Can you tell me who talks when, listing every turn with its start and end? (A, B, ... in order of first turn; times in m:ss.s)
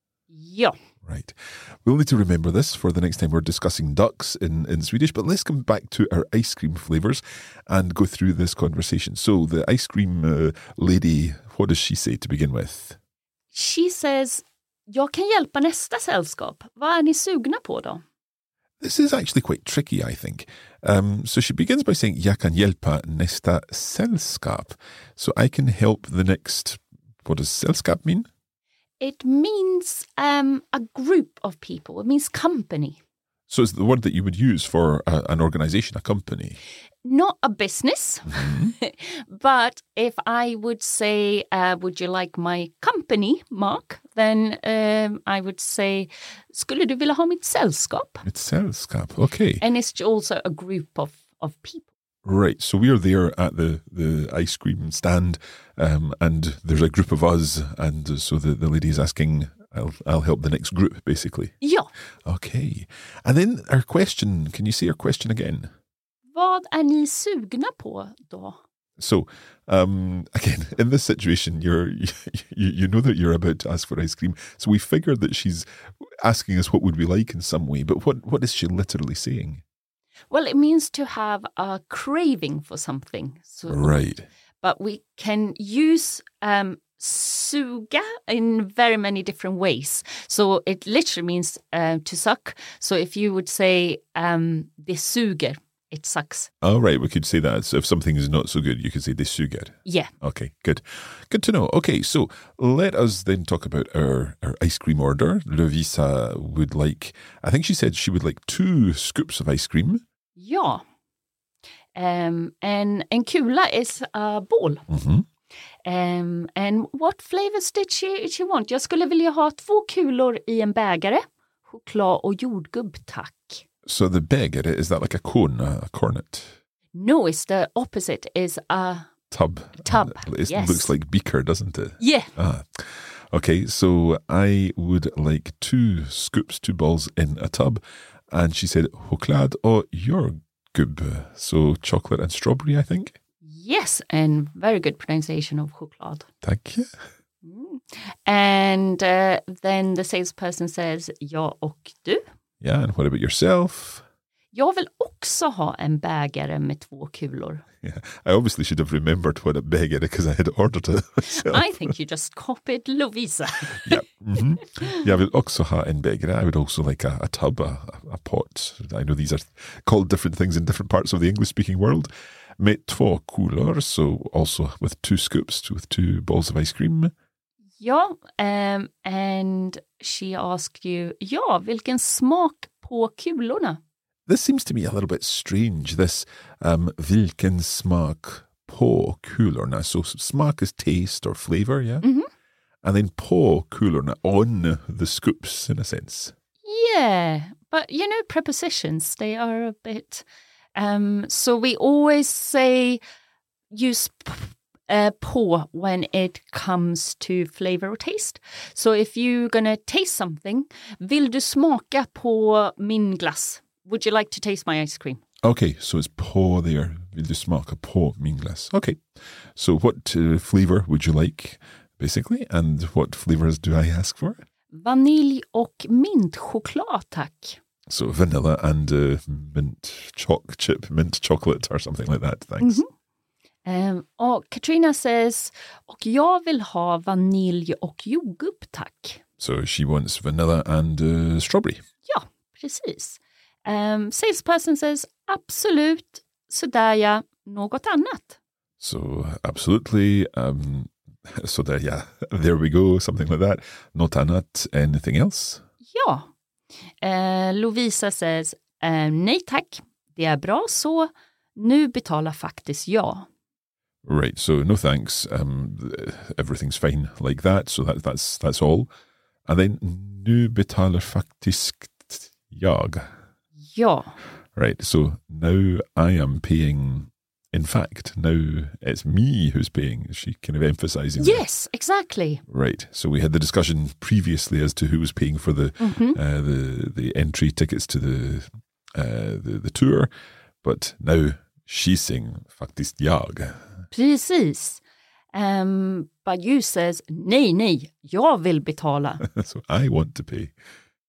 0:00.3-0:00.8 A
0:01.0-0:13.0 B
0:13.5-0:18.0 A
0:18.8-0:28.3 B
0:29.0-0:33.0 A
0:33.5-0:36.6 B
0:37.0-0:48.2 A
0:38.3-0:38.8 B
0:48.2-0:49.6 B
0:49.6-0:51.9 A
0:52.2-1:01.5 B
1:01.6-1:01.9 A
1:02.2-1:05.7 B
1:06.3-1:08.6 A
1:09.0-1:19.6 B
1:20.3-1:23.9 A
1:23.7-1:24.3 B
1:24.6-1:36.5 A
1:36.6-1:50.0 B
1:39.9-1:40.1 A
1:50.4-1:50.8 A
1:52.0-1:54.9 A
1:54.9-1:55.3 B
1:55.8-2:03.6 A
2:03.9-2:06.6 B
2:06.9-2:09.1 A
2:09.3-2:23.2 B
2:09.8-2:10.9 A
2:12.0-2:12.3 A
2:23.4-2:26.3 A
2:26.4-2:26.9 B
2:27.4-2:32.2 A
2:32.6-2:34.0 B
2:34.5-2:37.6 A
2:37.8-2:41.9 B
2:41.3-2:44.0 A
2:43.7-2:57.1 B
2:57.8-3:03.8 A
3:04.3-3:12.0 B
3:12.0-3:12.3 A
3:12.8-3:16.3 B
3:16.6-3:23.0 A
3:23.7-3:35.2 A
3:35.4-3:39.0 B
3:39.6-3:44.4 B
3:44.7-3:47.6 A
3:47.9-3:52.8 B
3:52.6-3:52.9 A
3:53.6-3:59.2 A
3:59.4-4:01.8 B
4:02.1-4:08.4 A
4:08.8-4:15.6 B
4:15.9-4:16.3 A
4:17.0-4:23.3 A
4:24.0-4:28.9 B
4:29.5-4:33.1 B
4:33.7-4:34.2 A
4:34.6-4:41.4 B
4:41.2-4:42.4 A
4:42.5-4:50.1 B
4:45.8-4:46.2 A
4:50.6-4:53.6 B
4:53.9-4:54.8 A
4:55.3-4:59.2 A
4:59.2-5:00.6 B